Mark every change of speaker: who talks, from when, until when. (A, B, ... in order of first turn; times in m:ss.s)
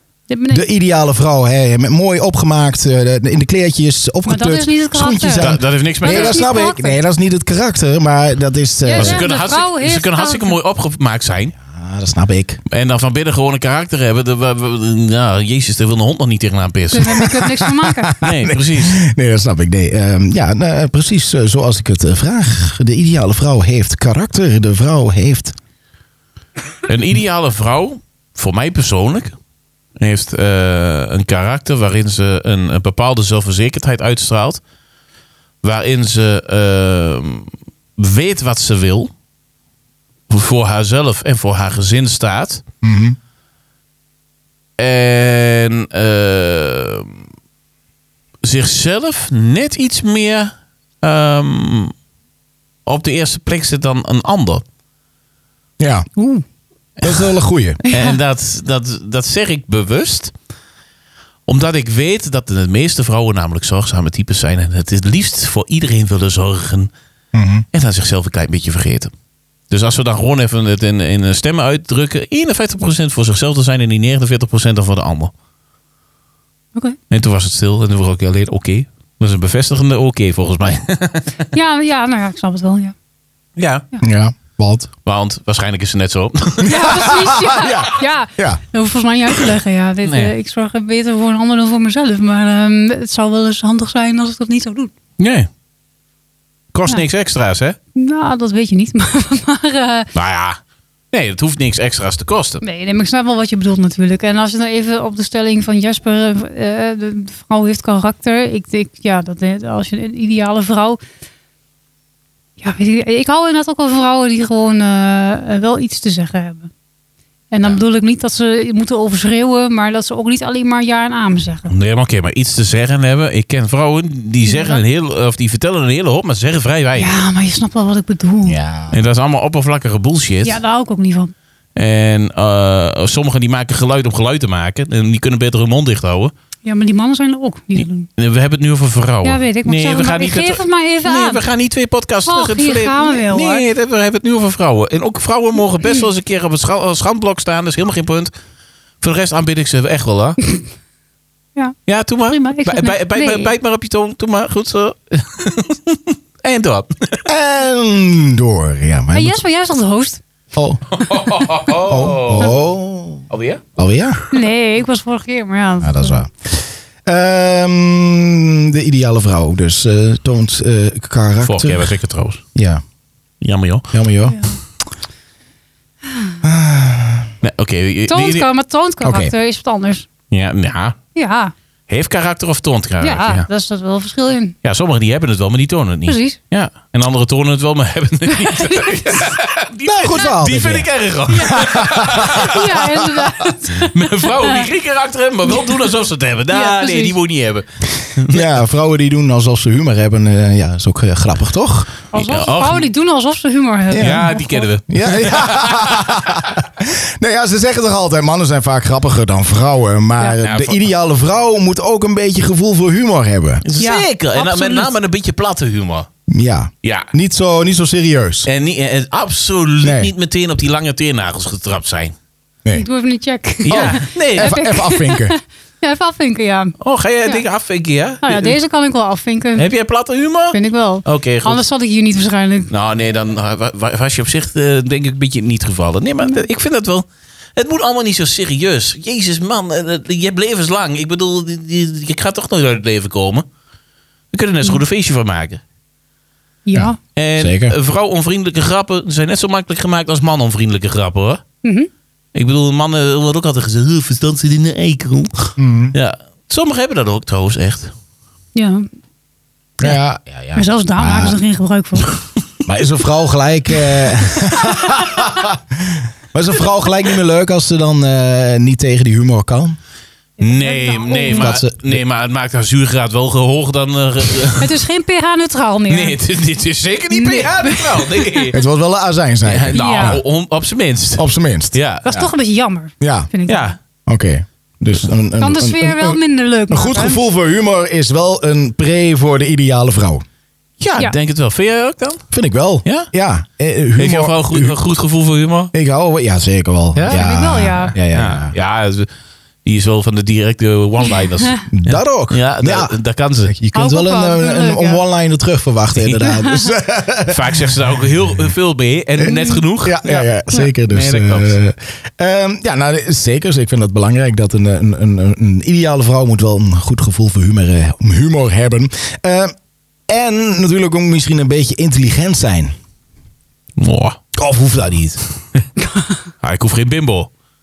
0:00.3-0:00.6 A
0:00.5-0:09.2 B
0:04.2-0:05.5 A
0:05.3-0:06.4 C
0:06.0-0:07.0 A
0:08.8-0:10.6 A
0:09.0-0:11.5 C
0:11.6-0:12.6 B
0:12.7-0:17.3 C
0:16.9-0:18.1 A
0:17.0-0:25.6 B
0:18.2-0:19.0 C
0:26.9-0:29.3 C
0:30.0-0:34.6 C
0:35.6-0:39.1 C
0:40.3-0:42.6 C
0:42.8-0:43.2 B
0:44.8-0:47.2 C
0:48.4-0:51.9 C
0:52.8-0:54.6 C
0:55.8-0:56.1 B
0:56.2-0:56.4 A
0:57.0-0:57.4 C
0:57.0-0:57.8 B
0:57.8-0:58.2 A
0:57.9-1:00.3 C
1:01.5-1:06.9 C
1:07.3-1:07.6 B
1:07.7-1:09.1 C
1:09.7-1:15.3 C
1:17.1-1:21.4 C
1:21.5-1:22.9 A
1:23.6-1:23.8 C
1:24.0-1:24.9 B
1:25.0-1:26.9 C
1:26.6-1:34.9 A
1:26.6-1:28.6 B
1:30.0-1:30.3 C
1:35.2-1:35.5 C
1:36.7-1:37.8 C
1:37.9-1:40.1 A
1:40.1-1:40.6 C
1:41.1-1:42.6 C
1:42.6-1:51.0 A
1:52.6-1:56.7 A
1:57.5-2:01.7 A
2:01.7-2:07.1 C
2:04.4-2:04.8 A
2:06.9-2:08.6 A
2:08.4-2:09.0 B
2:08.9-2:10.6 C
2:10.4-2:11.3 A
2:11.8-2:16.3 C
2:16.6-2:18.1 A
2:17.8-2:28.3 C
2:19.2-2:21.4 A
2:22.2-2:23.6 A
2:29.0-2:30.4 C
2:31.9-2:37.2 C
2:32.3-2:33.5 A
2:37.2-2:39.4 B
2:39.1-2:40.2 A
2:40.5-2:40.8 B
2:40.9-2:42.6 C
2:41.7-2:43.2 B
2:43.3-2:43.6 C
2:43.8-2:44.2 B
2:44.3-2:46.2 A
2:45.8-2:51.9 B
2:51.4-2:52.4 C
2:52.5-2:52.8 B
2:53.4-2:53.9 C
2:53.9-2:54.4 B
2:54.2-2:54.6 A
2:56.4-2:57.3 B
2:57.4-2:58.5 C
2:58.1-3:00.1 A
2:59.0-2:59.3 B
3:00.3-3:01.0 C
3:01.1-3:01.5 A
3:01.9-3:03.5 C
3:03.0-3:04.6 A
3:04.6-3:13.0 C
3:06.0-3:06.4 A
3:08.3-3:09.3 A
3:09.8-3:10.9 B
3:11.3-3:14.7 A
3:11.4-3:13.1 B
3:13.7-3:18.6 C
3:15.5-3:15.8 A
3:16.5-3:17.1 A
3:18.3-3:21.9 B
3:22.1-3:24.6 A
3:22.1-3:22.9 C
3:23.9-3:33.6 B
3:24.0-3:26.4 C
3:30.4-3:30.8 C
3:33.6-3:36.1 C
3:33.8-3:34.9 A
3:36.3-3:38.5 B
3:36.8-3:37.1 C
3:38.4-3:42.1 C
3:39.8-3:40.1 B
3:42.7-3:46.7 A
3:43.6-3:44.6 C
3:43.7-3:45.3 B
3:46.8-3:48.6 C
3:48.2-3:49.7 A
3:49.6-3:51.6 C
3:50.5-3:52.7 A
3:52.7-4:03.4 C
4:04.3-4:05.6 C
4:06.6-4:07.0 A
4:06.7-4:07.7 B
4:07.1-4:11.4 C
4:11.6-4:11.9 A
4:12.3-4:17.9 C
4:15.6-4:15.9 B
4:18.5-4:18.8 A
4:19.8-4:21.4 B
4:20.5-4:22.1 A
4:22.6-4:29.8 B
4:30.4-4:31.5 A
4:30.4-4:34.8 C
4:31.3-4:32.0 B
4:34.6-4:36.2 A
4:35.9-4:38.5 C
4:37.1-4:38.5 A
4:38.5-4:40.2 B
4:39.4-4:42.2 C
4:39.7-4:40.2 A
4:41.2-4:42.3 B
4:42.0-4:43.7 A
4:43.0-4:43.3 B
4:43.5-4:43.8 C
4:44.0-4:50.2 B
4:45.4-4:47.2 A
4:50.8-4:52.2 C
4:52.3-4:54.8 B
4:52.8-4:53.1 C
4:54.0-4:55.7 C
4:55.7-4:58.5 B
4:56.9-4:57.2 C
4:57.0-4:57.9 A
4:58.1-4:59.1 C
4:59.6-5:03.5 C
5:01.7-5:02.9 B
5:03.4-5:07.7 B
5:03.7-5:05.0 A
5:05.9-5:06.3 C
5:06.3-5:06.6 A
5:07.3-5:11.6 C
5:09.2-5:19.5 B
5:09.2-5:09.6 A
5:20.1-5:22.7 B
5:23.8-5:24.2 C
5:24.3-5:25.2 B
5:25.8-5:26.2 A
5:26.4-5:27.3 C